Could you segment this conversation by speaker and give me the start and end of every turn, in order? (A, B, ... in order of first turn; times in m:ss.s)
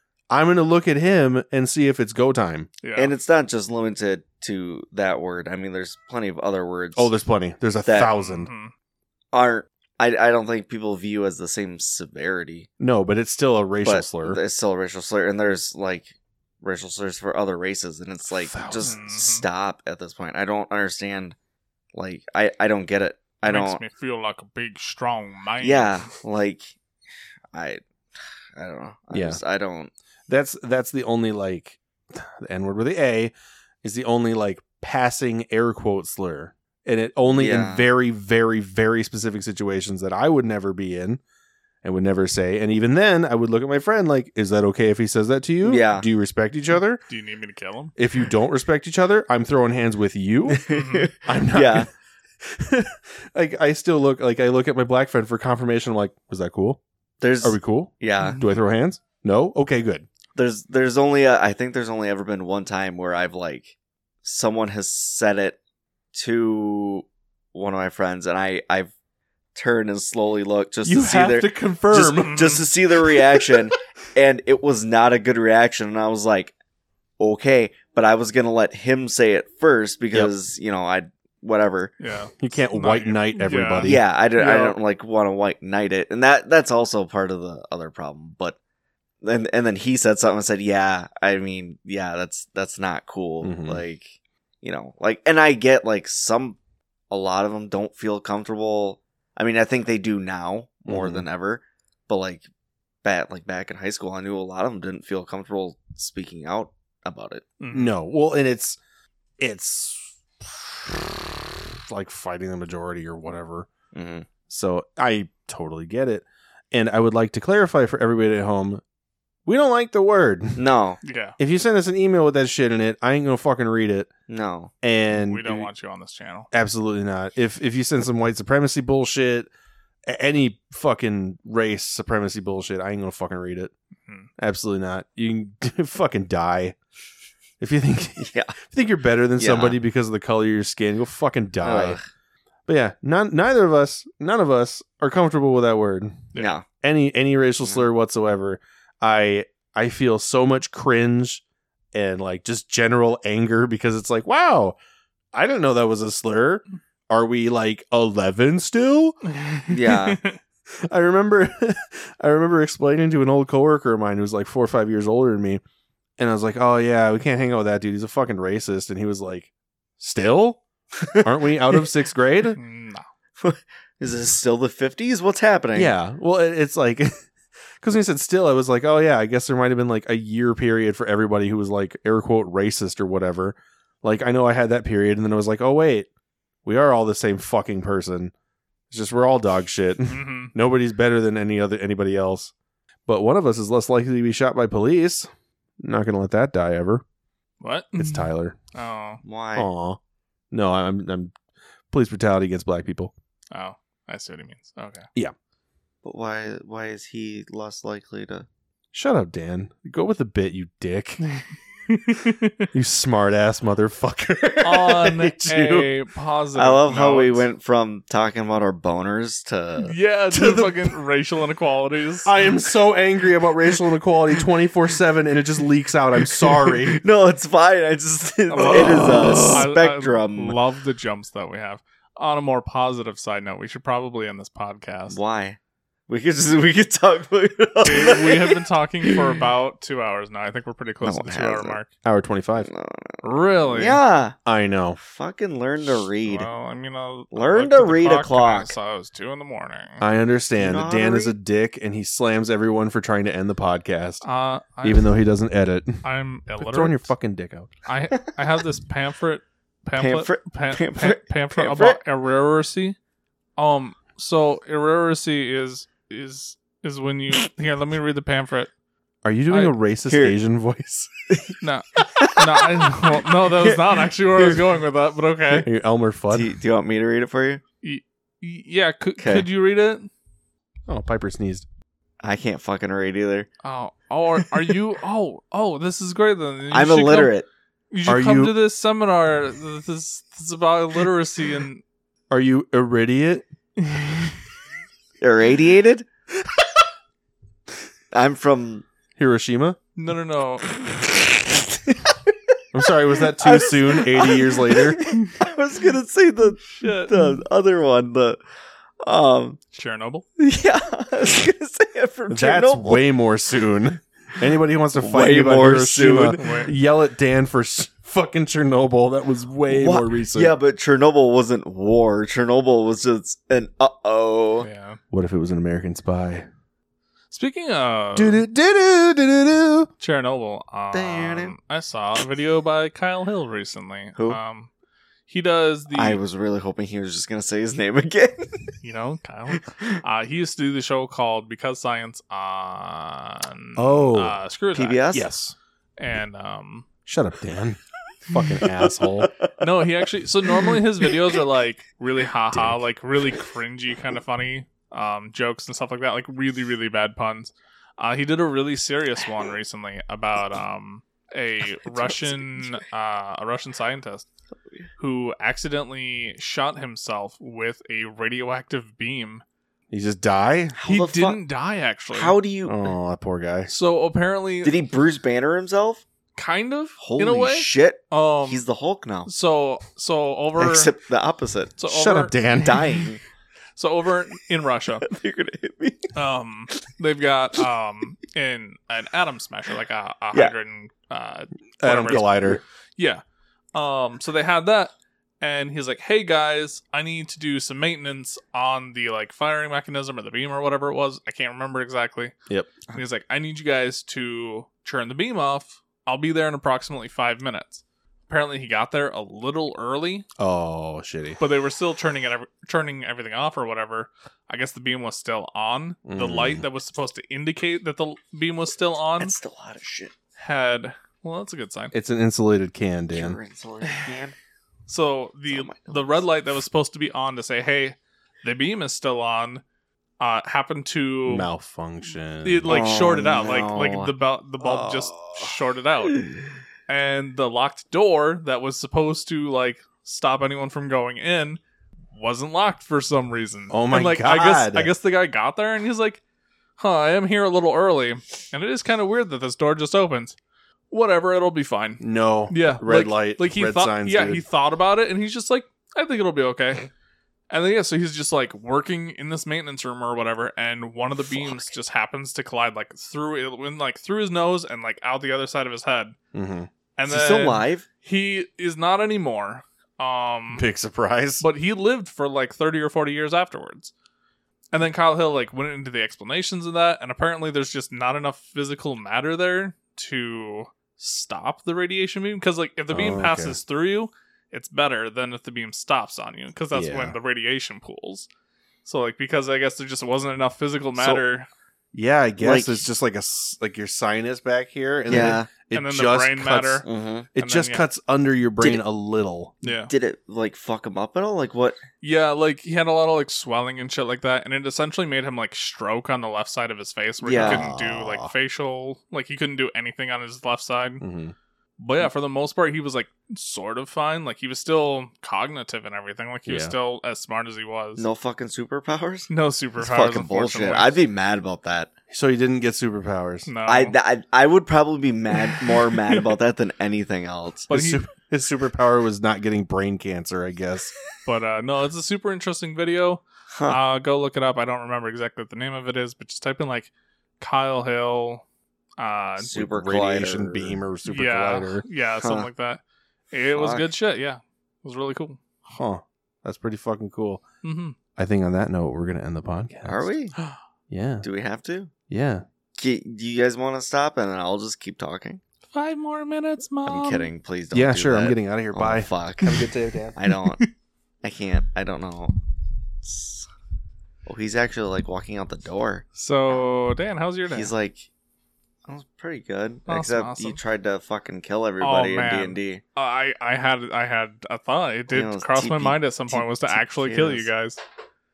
0:00.3-0:02.7 A
0:02.8-0:03.1 B
0:03.0-0:07.1 C
0:07.0-0:08.5 A
0:07.8-0:08.1 C
0:08.1-0:08.7 B
0:09.3-0:12.7 C
0:12.8-0:14.4 A
0:13.8-0:21.4 C
0:18.4-0:18.9 A
0:18.8-0:19.4 B
0:21.9-0:23.8 C
0:23.4-0:26.1 B
0:25.6-0:26.8 C
0:27.5-0:27.8 C
0:28.6-0:29.9 C
0:29.1-0:29.4 A
0:30.3-0:41.2 A
0:37.3-0:37.9 C
0:41.8-0:47.0 A
0:45.6-0:46.1 C
0:47.1-0:48.0 B
0:48.0-0:50.7 A
0:50.5-0:51.9 C
0:50.7-0:51.1 B
0:51.2-0:51.9 A
0:52.4-0:56.8 A
0:57.2-0:58.4 C
0:57.4-1:00.1 A
0:58.2-0:58.4 B
1:00.4-1:05.6 C
1:06.1-1:08.9 C
1:09.6-1:16.5 C
1:10.8-1:12.4 A
1:12.2-1:12.6 B
1:13.0-1:13.7 A
1:17.2-1:21.9 C
1:22.0-1:24.8 B
1:22.4-1:24.0 A
1:23.8-1:28.6 C
1:29.2-1:36.6 C
1:33.4-1:33.8 A
1:37.1-1:42.4 C
1:40.9-1:41.3 A
1:43.0-1:47.4 C
1:47.6-1:47.9 B
1:47.7-1:48.8 A
1:49.4-1:53.7 A
1:53.9-1:54.3 C
1:54.5-1:58.8 A
1:59.5-2:00.6 A
2:00.6-2:01.0 C
2:01.0-2:01.4 B
2:01.4-2:04.1 A
2:04.3-2:04.7 C
2:04.8-2:05.7 A
2:05.1-2:06.5 B
2:06.5-2:09.5 A
2:10.1-2:13.7 A
2:14.4-2:16.8 A
2:17.6-2:22.0 A
2:18.2-2:18.5 C
2:19.4-2:19.8 C
2:21.6-2:22.0 C
2:22.7-2:26.2 A
2:26.4-2:26.6 C
2:26.8-2:31.4 A
2:31.9-2:34.8 A
2:35.3-2:39.2 A
2:39.3-2:40.4 B
2:39.7-2:40.2 C
2:40.9-2:45.6 A
2:46.2-2:50.6 A
2:51.0-2:51.3 C
2:51.2-2:52.6 A
2:52.6-2:53.0 B
2:53.4-2:55.9 C
2:55.8-2:57.1 A
2:57.8-3:06.1 A
3:06.6-3:08.3 A
3:08.9-3:12.5 A
3:10.1-3:10.5 B
3:13.1-3:15.3 A
3:15.8-3:17.0 A
3:17.6-3:19.2 B
3:18.0-3:18.6 A
3:19.2-3:19.7 C
3:19.6-3:20.0 A
3:20.5-3:21.3 A
3:21.9-3:23.1 A
3:23.5-3:25.1 B
3:26.0-3:28.5 C
3:28.9-3:31.2 A
3:31.3-3:32.7 B
3:32.7-3:35.9 A
3:34.6-3:37.4 B
3:36.6-3:39.9 C
3:39.8-3:42.3 B
3:40.3-3:41.0 A
3:42.2-3:47.0 A
3:46.9-3:50.6 C
3:48.5-3:55.2 B
3:48.6-3:49.7 A
3:55.1-3:58.6 C
3:57.8-4:01.9 B
4:01.0-4:01.8 C
4:02.0-4:02.7 A
4:02.6-4:04.4 C
4:03.2-4:04.0 B
4:04.5-4:05.0 A
4:05.0-4:06.5 C
4:06.0-4:10.0 B
4:07.3-4:08.8 C
4:10.0-4:14.2 A
4:10.6-4:11.4 C
4:14.2-4:15.2 B
4:14.8-4:16.0 A
4:16.0-4:17.1 B
4:16.6-4:17.7 A
4:17.9-4:23.0 B
4:20.0-4:22.0 C
4:23.6-4:28.7 B
4:29.2-4:31.1 A
4:29.5-4:29.8 B
4:30.1-4:30.4 C
4:31.3-4:34.6 C
4:31.6-4:35.7 B
4:35.6-4:36.5 A
4:36.3-4:37.6 C
4:37.8-4:40.1 B
4:39.2-4:39.5 C
4:40.9-4:41.6 A
4:42.2-4:43.5 C
4:43.6-4:47.4 B
4:46.7-4:47.5 C
4:47.9-4:51.8 B
4:48.0-4:48.6 A
4:52.3-4:53.5 A
4:53.8-4:54.4 B
4:55.2-4:56.1 C
4:58.1-4:58.8 C
4:59.2-4:59.8 A
5:00.0-5:00.8 B
5:01.9-5:02.3 C
5:02.7-5:05.2 A
5:03.2-5:08.4 C
5:06.7-5:07.4 B
5:09.0-5:09.6 C
5:09.7-5:10.2 B
5:10.4-5:13.0 C
5:12.3-5:20.6 A
5:15.0-5:16.7 C
5:16.4-5:16.7 B
5:19.7-5:24.7 C
5:24.6-5:25.0 B
5:25.1-5:26.5 A
5:27.3-5:28.4 B
5:28.2-5:29.9 A
5:30.0-5:34.7 B
5:30.9-5:31.5 C
5:35.3-5:36.2 B
5:35.9-5:38.7 C
5:38.8-5:45.0 B
5:39.5-5:40.0 C
5:43.8-5:44.4 A
5:44.7-5:45.3 C
5:45.1-5:45.6 A
5:46.0-5:46.9 B
5:47.1-5:49.3 A
5:49.2-5:49.5 C
5:49.6-6:04.3 B
5:52.5-5:52.8 A
6:01.9-6:02.8 C
6:05.0-6:09.4 B
6:09.9-6:10.8 A
6:10.8-6:11.4 C
6:10.8-6:12.4 B
6:12.1-6:12.9 C
6:12.7-6:13.7 A
6:13.7-6:14.8 B
6:14.6-6:16.0 C
6:16.4-6:18.6 B
6:17.0-6:19.3 C
6:19.3-6:20.9 B
6:20.6-6:21.8 C
6:21.8-6:22.4 B
6:21.9-6:23.1 A
6:22.6-6:23.2 C
6:23.8-6:25.1 B
6:25.1-6:26.1 C
6:26.2-6:33.2 B
6:31.8-6:32.6 A
6:32.1-6:32.6 C
6:33.8-6:42.4 B
6:42.5-6:42.8 A
6:42.9-6:50.3 B
6:50.4-6:51.4 A
6:51.4-6:59.3 B
6:56.1-6:56.6 A
6:59.2-7:00.1 C
7:00.4-7:01.9 B
7:01.9-7:03.4 A
7:03.1-7:04.4 C
7:04.9-7:09.6 B
7:05.5-7:06.2 C
7:10.2-7:11.5 B
7:11.3-7:13.0 A
7:12.4-7:16.3 B
7:12.7-7:15.5 C
7:16.9-7:21.6 B
7:22.1-7:26.2 B
7:23.7-7:24.9 A
7:26.8-7:30.4 B
7:30.9-7:36.9 B
7:32.0-7:34.4 A
7:37.5-7:46.2 B
7:41.3-7:41.7 C
7:46.3-7:46.7 A
7:47.0-7:50.6 B
7:47.1-7:47.9 C
7:50.5-7:51.4 A
7:51.4-7:53.9 B
7:54.7-8:08.3 B
8:02.9-8:03.6 A
8:06.7-8:07.2 A
8:08.8-8:11.5 B
8:11.0-8:11.2 C
8:11.9-8:19.6 A
8:12.4-8:12.8 C
8:15.1-8:15.5 C
8:15.1-8:16.8 B
8:16.8-8:17.3 C
8:17.4-8:17.8 B
8:19.6-8:19.9 B
8:19.9-8:21.8 C
8:22.0-8:31.0 B
8:27.2-8:27.7 C
8:27.4-8:28.3 A
8:31.0-8:31.4 A
8:31.8-8:38.0 B
8:36.5-8:36.8 A
8:38.0-8:41.9 C
8:39.3-8:41.0 B
8:42.1-8:43.5 A
8:43.5-8:44.0 B
8:43.7-8:47.7 C
8:45.4-8:46.3 B
8:47.7-8:48.1 B
8:47.7-8:50.9 A
8:51.2-8:58.4 B
8:53.5-8:53.8 C
8:59.0-8:59.7 B
8:59.4-9:00.8 C
8:59.6-9:01.8 A
9:01.0-9:05.4 B
9:02.2-9:02.5 C
9:03.5-9:03.9 C
9:05.7-9:07.4 A
9:07.6-9:08.0 B
9:08.2-9:10.1 A
9:09.9-9:10.4 C
9:10.9-9:11.2 A
9:11.2-9:11.9 C
9:12.1-9:12.4 A
9:12.8-9:15.4 C
9:15.7-9:17.3 B
9:16.9-9:19.6 C
9:17.7-9:20.2 A
9:20.2-9:20.6 C
9:20.3-9:20.7 B
9:21.2-9:22.4 C
9:23.0-9:23.5 C
9:24.3-9:26.7 C
9:26.2-9:27.7 B
9:27.5-9:28.1 C
9:28.9-9:32.8 C
9:29.9-9:30.6 B
9:31.8-9:37.8 B
9:35.1-9:37.5 C